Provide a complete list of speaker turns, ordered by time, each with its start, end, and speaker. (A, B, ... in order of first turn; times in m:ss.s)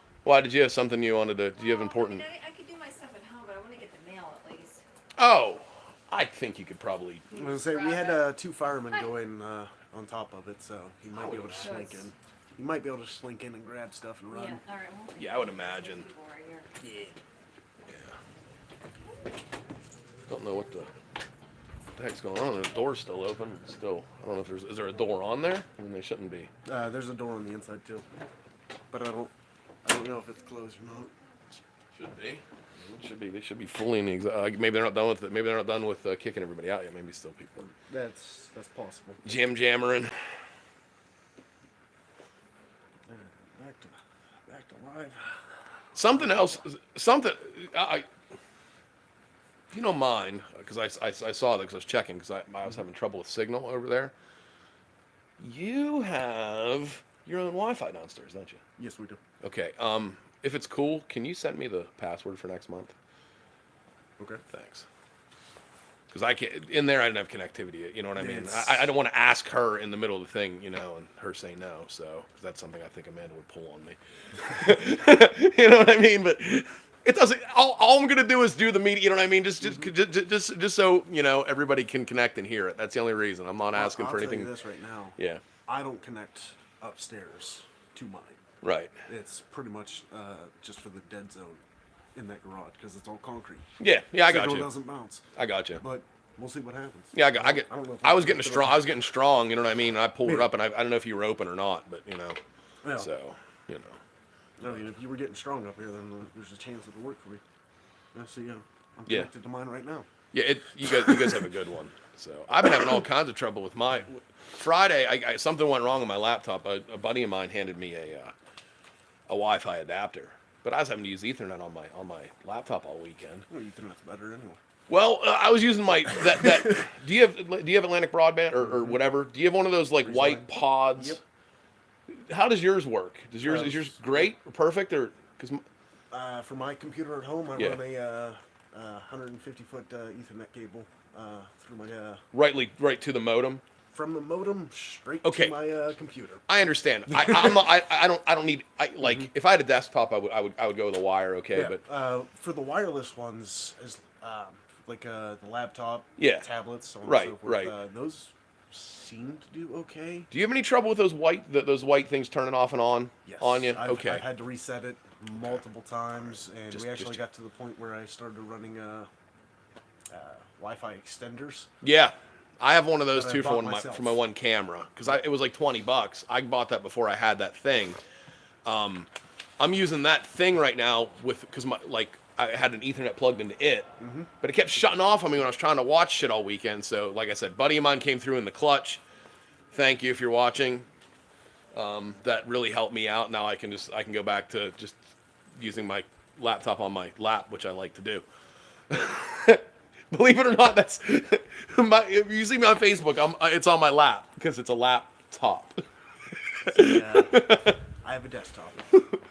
0:00.2-0:02.3 A
0:01.6-0:04.8 B
0:05.2-0:07.3 A
0:07.3-0:14.6 C
0:07.3-0:08.2 B
0:11.1-0:12.0 A
0:11.6-0:12.0 B
0:14.3-0:16.7 B
0:15.2-0:16.1 A
0:20.3-0:20.9 A
0:22.0-0:26.5 A
0:26.6-0:28.0 C
0:28.9-0:29.3 C
0:29.8-0:31.1 C
0:32.0-0:37.7 A
0:37.7-0:39.2 C
0:39.2-0:40.1 A
0:43.1-0:45.4 C
0:46.0-0:48.1 A
0:46.1-0:46.6 C
0:49.7-0:54.1 A
0:55.4-0:58.6 A
0:58.8-0:59.2 C
0:59.4-1:02.9 A
1:04.5-1:04.9 A
1:06.1-1:24.5 A
1:08.2-1:08.9 C
1:19.6-1:19.9 C
1:23.7-1:28.4 C
1:25.2-1:25.4 A
1:28.6-1:28.9 A
1:29.1-1:31.6 C
1:32.1-1:33.6 C
1:33.8-1:34.7 A
1:34.2-1:35.2 C
1:35.4-1:35.8 A
1:35.8-1:38.9 C
1:37.1-1:42.4 A
1:40.2-1:40.5 C
1:42.8-1:43.1 C
1:43.0-1:44.0 A
1:44.6-1:47.4 C
1:48.1-1:50.1 C
1:50.3-1:58.3 A
1:51.0-1:51.3 C
1:59.3-2:03.5 A
2:03.5-2:04.6 C
2:04.9-2:11.2 A
2:08.6-2:09.0 C
2:10.0-2:11.2 C
2:12.3-2:15.6 A
2:13.4-2:14.3 C
2:16.1-2:22.2 C
2:17.6-2:17.8 A
2:22.3-2:23.6 A
2:23.9-2:26.5 C
2:25.2-2:25.6 A
2:26.5-2:31.8 A
2:27.1-2:27.6 C
2:29.0-2:29.3 C
2:31.5-2:40.3 C
2:36.2-2:36.5 A
2:37.0-2:37.7 A
2:40.3-2:44.3 A
2:43.3-2:49.1 C
2:46.7-2:47.2 A
2:50.1-2:51.7 C
2:51.8-2:58.0 A
2:53.1-2:54.2 C
2:58.6-3:03.9 A
3:04.0-3:04.3 C
3:04.4-3:09.0 A
3:09.7-3:10.9 A
3:11.7-3:15.0 A
3:15.6-3:18.2 A
3:18.9-3:25.8 A
3:26.6-3:27.8 A
3:26.7-3:28.9 C